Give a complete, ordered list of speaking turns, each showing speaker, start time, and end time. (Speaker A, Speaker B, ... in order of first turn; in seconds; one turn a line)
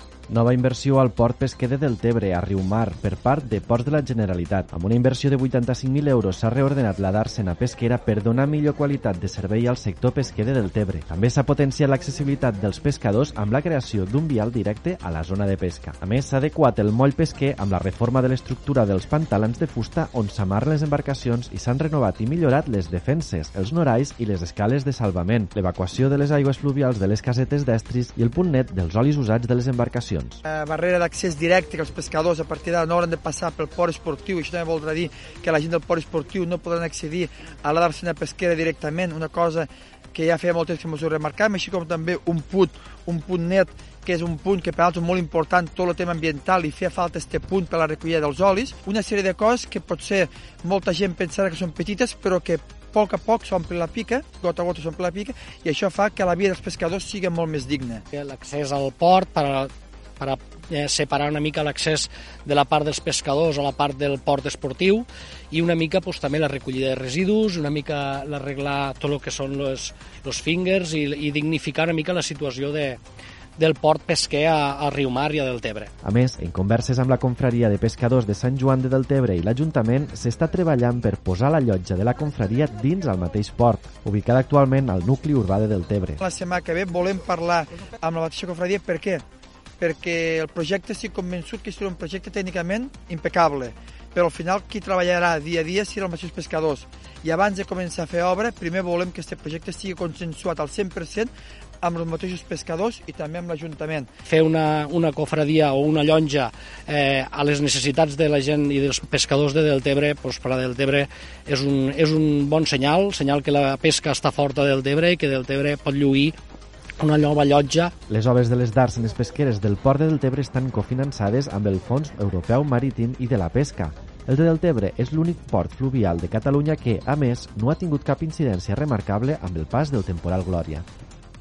Speaker A: 0.3-30.4
Speaker B: 30.4-58.0
Speaker C: 58.1-73.0
Speaker C: 73.6-75.9
Speaker A: 76.0-86.2
Speaker B: 86.2-89.2
Speaker B: 89.8-101.3
Speaker B: 101.8-104.1
Speaker C: 104.2-116.3
Speaker C: 117.0-117.9
Speaker A: 118.1-130.9